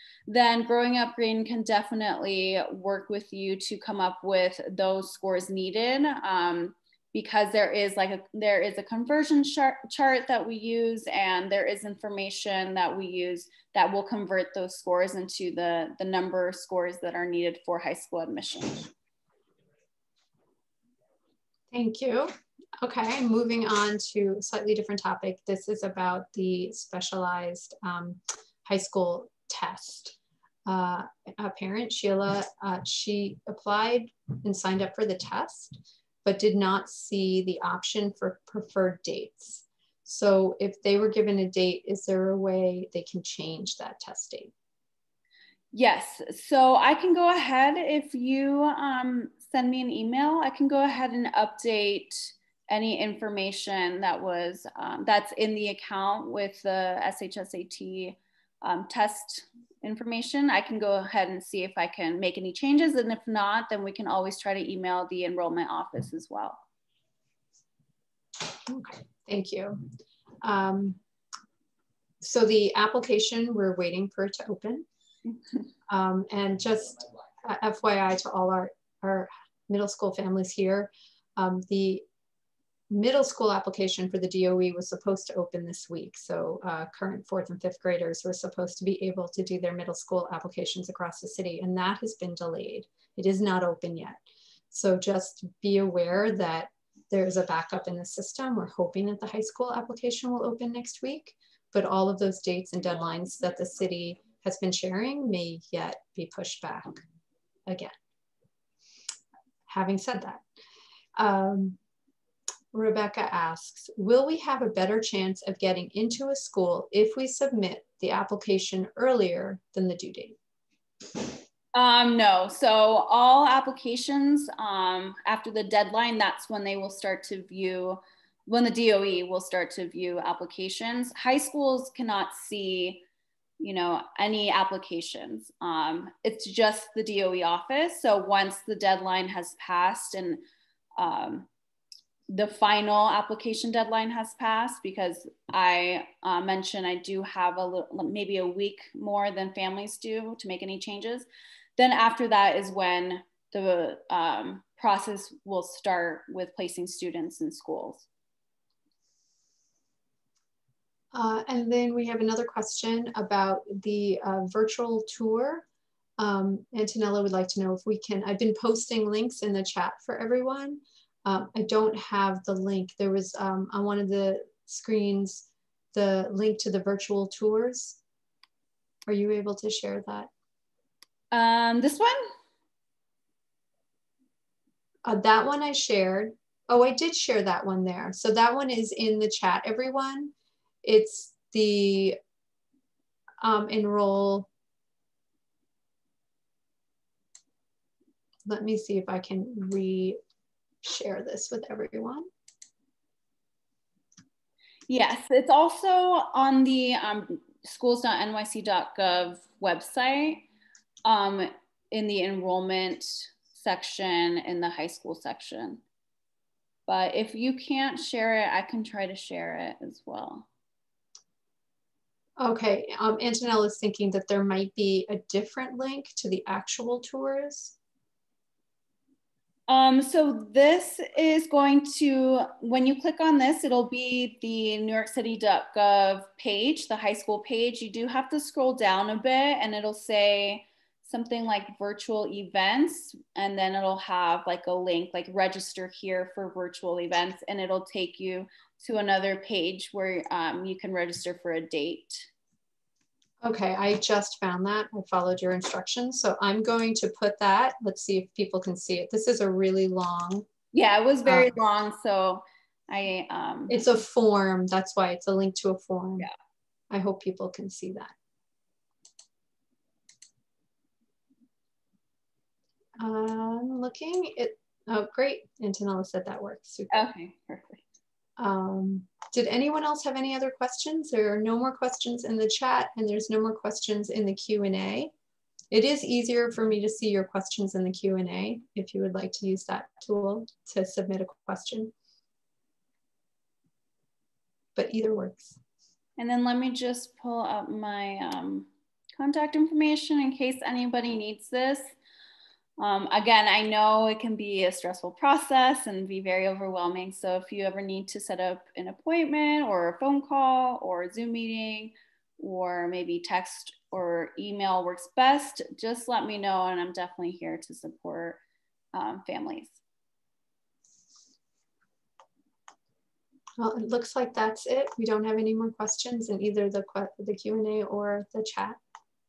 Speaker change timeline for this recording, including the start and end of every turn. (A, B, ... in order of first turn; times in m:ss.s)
0:00.3-0:18.9 A
0:21.7-0:22.3 B
0:22.8-0:44.5 B
0:45.7-1:06.6 A
1:08.5-1:11.0 B
1:12.2-1:14.8 B
1:15.9-1:22.0 B
1:22.9-1:47.0 B
1:47.7-1:47.9 B
1:49.7-1:50.4 B
1:51.2-1:51.8 B
1:52.7-2:00.4 B
2:01.7-2:13.0 A
2:13.6-2:20.4 A
2:21.0-2:21.5 A
2:22.3-2:38.1 A
2:41.1-2:45.7 B
2:46.2-2:58.0 B
2:59.1-3:00.3 B
3:01.3-3:02.2 A
3:05.1-3:10.3 B
3:10.8-3:12.2 B
3:13.4-3:14.5 B
3:18.5-3:20.2 B
3:20.8-3:22.3 B
3:24.9-3:30.4 A
3:31.0-3:35.8 A
3:36.9-3:40.5 A
3:42.4-3:47.8 B
3:49.7-4:12.3 A
4:13.4-4:20.4 B
4:20.7-4:23.8 A
4:21.3-4:21.5 B
4:23.7-4:26.3 B
4:26.9-4:28.1 B
4:33.0-4:37.1 B
4:36.9-4:37.8 A
4:38.4-4:45.1 B
4:45.7-4:51.9 B
4:54.8-4:55.6 B
4:56.2-5:02.0 A
5:02.8-5:18.4 A
5:18.9-5:19.8 A
5:23.6-5:28.8 B